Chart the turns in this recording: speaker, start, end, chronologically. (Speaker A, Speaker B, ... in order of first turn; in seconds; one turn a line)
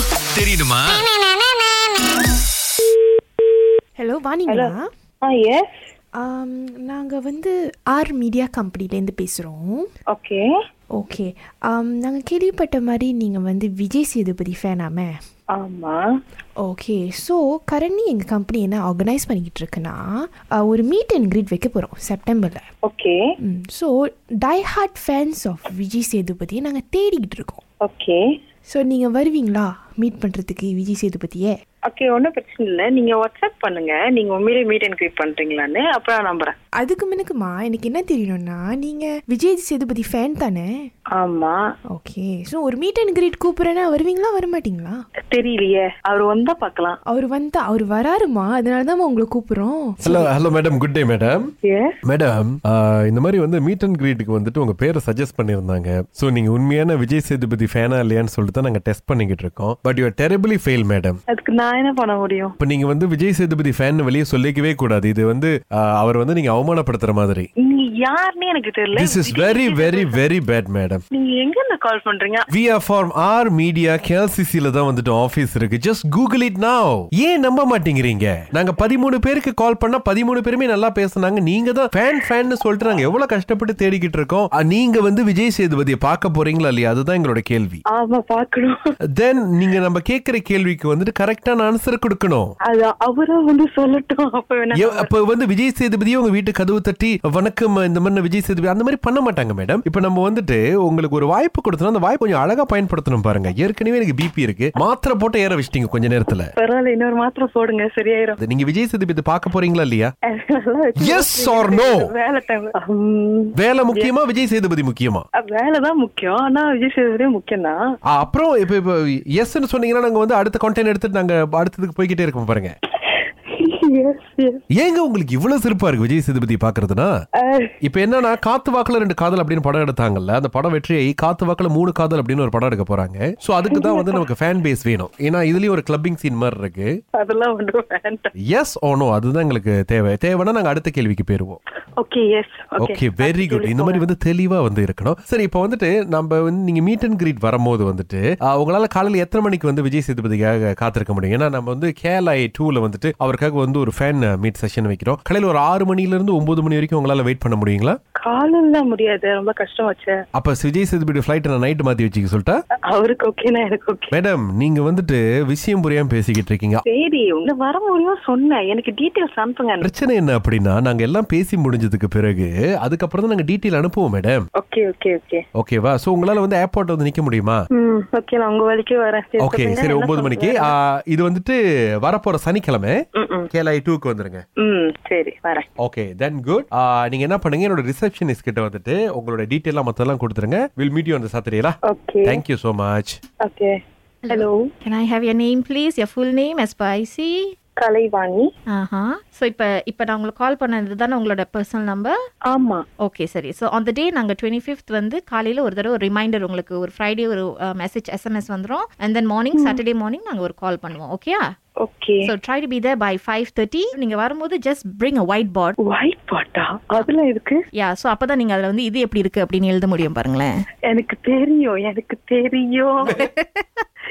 Speaker A: 0.3-1.1
Speaker B: 4.0-4.8
Speaker C: 4.5-4.7
Speaker C: 5.2-5.7
Speaker B: 6.2-9.9
Speaker C: 10.1-10.5
Speaker B: 10.9-15.1
Speaker C: 15.5-16.0
Speaker B: 16.6-20.0
Speaker B: 20.6-22.6
Speaker C: 22.8-23.2
Speaker B: 23.4-27.6
Speaker C: 27.8-28.2
Speaker B: 28.7-31.5
Speaker C: 31.9-36.5
Speaker B: 36.8-40.8
Speaker C: 41.2-41.6
Speaker B: 41.9-45.0
Speaker C: 45.3-47.0
Speaker B: 47.1-50.3
Speaker A: 50.0-51.5
Speaker C: 51.6-52.0
Speaker A: 52.0-61.2
Speaker C: 61.3-62.5
Speaker A: 62.6-67.5
Speaker C: 67.6-70.2
Speaker A: 69.0-71.0
Speaker C: 71.1-72.5
Speaker A: 72.5-87.8
Speaker C: 87.9-88.7
Speaker A: 89.2-92.5
Speaker C: 92.7-95.1
Speaker A: 94.7-106.5
Speaker C: 106.6-108.4
Speaker A: 108.4-110.1
Speaker C: 110.3-114.1
Speaker A: 111.0-112.0
Speaker A: 113.6-115.2
Speaker C: 115.4-117.8
Speaker A: 118.1-122.7
Speaker C: 123.0-124.6
Speaker A: 124.7-127.1
Speaker C: 127.4-127.7
Speaker A: 127.8-136.9
Speaker C: 133.7-134.2
Speaker C: 137.2-138.3
Speaker A: 138.4-141.6
Speaker C: 142.0-144.0
Speaker A: 142.8-158.0
Speaker C: 158.2-160.1
Speaker A: 160.3-162.6
Speaker C: 162.9-164.1
Speaker A: 164.1-166.8
Speaker C: 166.8-169.9
Speaker A: 169.8-174.4
Speaker C: 174.6-175.4
Speaker A: 175.6-177.6
Speaker C: 177.8-180.7
Speaker A: 179.4-183.0
Speaker C: 183.2-183.5
Speaker A: 183.5-184.4
Speaker C: 184.6-185.7
Speaker A: 185.8-193.2
Speaker C: 191.8-192.4
Speaker C: 193.4-193.7
Speaker D: 194.2-197.5
Speaker C: 194.3-194.7
Speaker C: 197.8-198.5
Speaker D: 198.7-202.2
Speaker C: 202.5-202.8
Speaker D: 203.0-211.4
Speaker C: 211.8-212.3
Speaker D: 212.2-215.8
Speaker C: 215.8-217.6
Speaker D: 217.8-220.6
Speaker C: 220.9-223.1
Speaker D: 223.1-223.8